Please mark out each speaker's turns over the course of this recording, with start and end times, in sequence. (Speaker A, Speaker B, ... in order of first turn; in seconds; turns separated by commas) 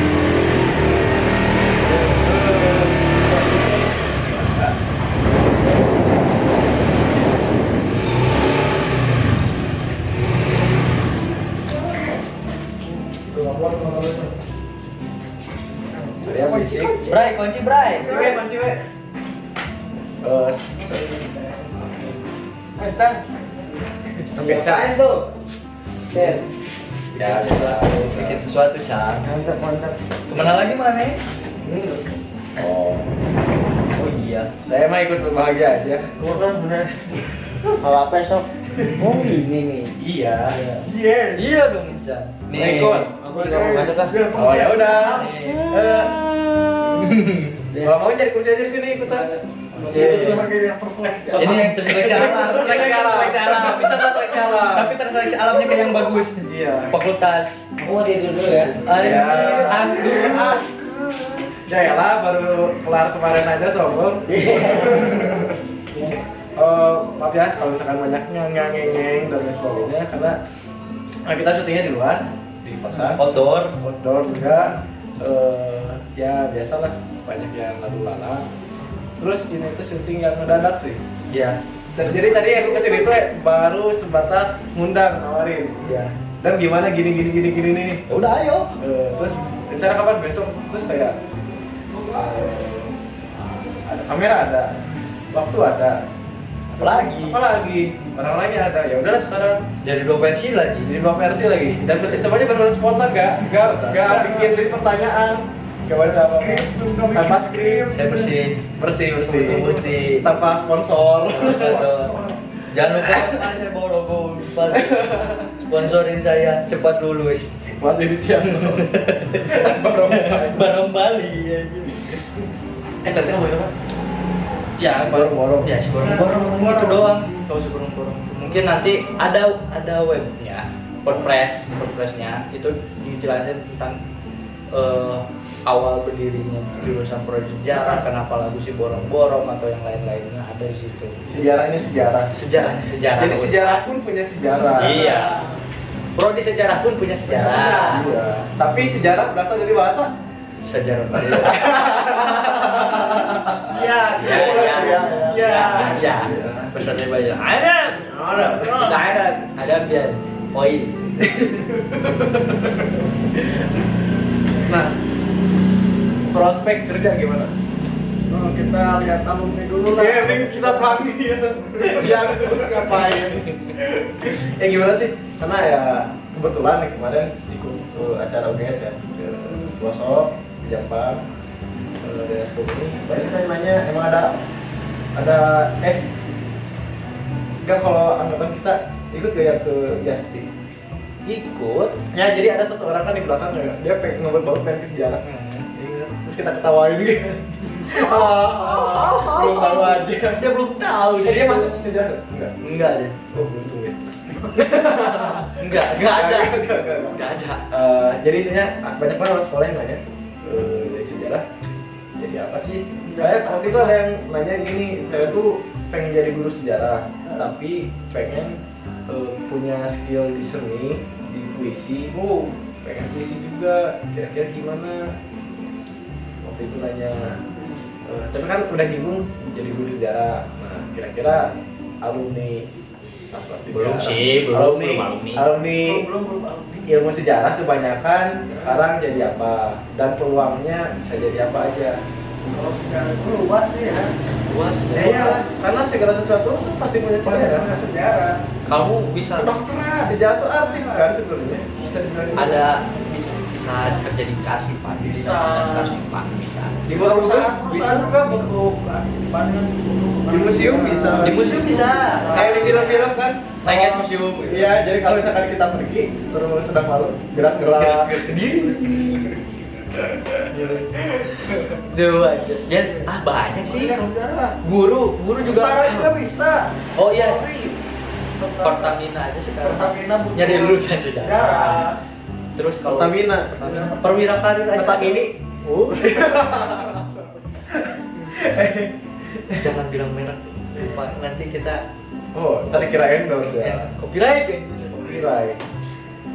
Speaker A: 2.1-4.7, Speaker B: 13.2-14.3, Speaker B: 15.9-17.3, Speaker A: 16.2-17.0, Speaker C: 17.1-18.1, Speaker B: 17.9-18.4, Speaker A: 18.0-18.8, Speaker A: 20.2-22.1, Speaker D: 22.8-23.2, Speaker A: 24.3-25.0, Speaker D: 24.4-25.3, Speaker D: 26.1-26.4, Speaker C: 27.1-29.3, Speaker A: 27.1-28.4, Speaker D: 29.2-30.0, Speaker C: 30.3-31.2, Speaker A: 31.6-32.0, Speaker A: 32.6-33.1, Speaker C: 34.0-34.5, Speaker A: 34.6-36.2, Speaker D: 36.2-37.0, Speaker D: 37.8-39.9, Speaker A: 38.8-39.0, Speaker A: 40.0-40.6, Speaker B: 40.8-41.5, Speaker C: 41.4-43.1, Speaker A: 42.5-43.1, Speaker D: 43.2-44.3, Speaker B: 43.2-45.3, Speaker A: 44.3-47.2, Speaker C: 45.1-45.9, Speaker C: 46.9-47.6, Speaker D: 47.7-48.0, Speaker A: 47.8-50.5, Speaker C: 49.7-50.5, Speaker B: 49.9-51.8, Speaker A: 51.3-55.0, Speaker C: 51.3-57.5, Speaker A: 56.4-56.9, Speaker D: 57.8-59.7, Speaker C: 58.5-60.6, Speaker A: 59.0-60.6, Speaker B: 60.1-60.7, Speaker A: 61.5-65.5, Speaker D: 64.3-66.2, Speaker A: 66.5-70.4, Speaker A: 71.2-73.2, Speaker C: 73.1-73.7, Speaker A: 73.8-78.5, Speaker A: 79.2-81.0, Speaker C: 81.3-82.7, Speaker A: 82.0-85.8, Speaker C: 85.8-86.1, Speaker A: 86.4-88.0, Speaker C: 88.1-88.8, Speaker A: 88.8-91.2, Speaker A: 92.1-92.9, Speaker A: 93.8-94.8, Speaker A: 95.3-96.0, Speaker A: 96.7-99.6, Speaker C: 96.8-97.4, Speaker C: 99.8-100.9, Speaker A: 100.8-107.9, Speaker C: 103.6-104.3, Speaker B: 104.0-104.6, Speaker B: 106.1-108.4, Speaker C: 107.9-108.6, Speaker A: 108.8-111.9, Speaker C: 109.2-110.3, Speaker C: 111.3-112.2, Speaker B: 111.4-112.4, Speaker C: 112.7-117.5, Speaker A: 113.0-113.5, Speaker A: 114.7-115.6, Speaker A: 117.7-120.8, Speaker C: 118.4-122.2, Speaker A: 123.0-123.7, Speaker C: 124.8-134.0, Speaker A: 124.9-125.7, Speaker B: 126.0-127.4, Speaker C: 134.7-141.2, Speaker A: 141.3-142.3, Speaker C: 142.3-143.8, Speaker A: 143.2-145.1, Speaker C: 144.8-145.4, Speaker B: 144.9-145.5, Speaker C: 146.2-148.1, Speaker B: 147.3-148.2, Speaker A: 147.3-150.1, Speaker C: 150.6-152.0, Speaker A: 151.3-156.7, Speaker B: 153.7-156.1, Speaker C: 154.1-161.5, Speaker A: 158.1-158.9, Speaker B: 158.4-159.0, Speaker A: 161.4-162.7, Speaker A: 163.4-163.6, Speaker A: 164.6-164.9, Speaker A: 166.3-167.5, Speaker B: 168.3-171.1, Speaker A: 169.9-181.2, Speaker B: 171.8-172.6, Speaker A: 182.0-184.4, Speaker A: 185.2-186.1, Speaker A: 187.6-190.5, Speaker C: 191.3-191.9, Speaker A: 192.1-200.5, Speaker C: 195.2-195.7, Speaker C: 197.8-201.9, Speaker A: 201.2-211.5, Speaker C: 202.6-203.2, Speaker C: 205.2-207.6, Speaker A: 212.2-222.2, Speaker B: 213.1-214.0, Speaker B: 222.1-222.5, Speaker A: 222.8-225.1, Speaker A: 226.4-227.4, Speaker B: 227.6-227.8, Speaker A: 228.1-231.5, Speaker A: 232.0-232.7, Speaker A: 233.3-236.1, Speaker C: 233.7-235.5, Speaker B: 235.8-236.9, Speaker A: 236.9-242.0, Speaker B: 238.5-238.8, Speaker B: 242.4-244.1, Speaker C: 244.4-245.5, Speaker A: 244.9-247.7, Speaker B: 247.2-248.4, Speaker C: 248.7-249.7, Speaker B: 249.4-251.2, Speaker A: 250.0-252.6, Speaker B: 251.8-254.1, Speaker C: 252.4-256.9, Speaker B: 255.0-256.0, Speaker A: 256.9-258.2, Speaker B: 256.9-262.9, Speaker A: 260.3-261.6, Speaker C: 261.2-265.0, Speaker A: 262.2-268.4, Speaker C: 267.6-269.4, Speaker C: 270.5-274.1, Speaker B: 271.2-271.8, Speaker B: 272.8-273.1, Speaker B: 273.7-274.6, Speaker C: 274.6-276.1, Speaker B: 275.4-277.8, Speaker C: 277.0-277.5, Speaker B: 278.4-279.0, Speaker C: 278.6-281.9, Speaker B: 279.6-282.0, Speaker C: 282.6-286.1, Speaker A: 282.9-283.6, Speaker B: 283.6-284.2, Speaker A: 284.7-285.4, Speaker A: 285.9-287.0, Speaker A: 287.7-289.7, Speaker C: 289.5-291.8, Speaker A: 292.3-293.9, Speaker C: 293.4-295.3, Speaker A: 294.9-295.6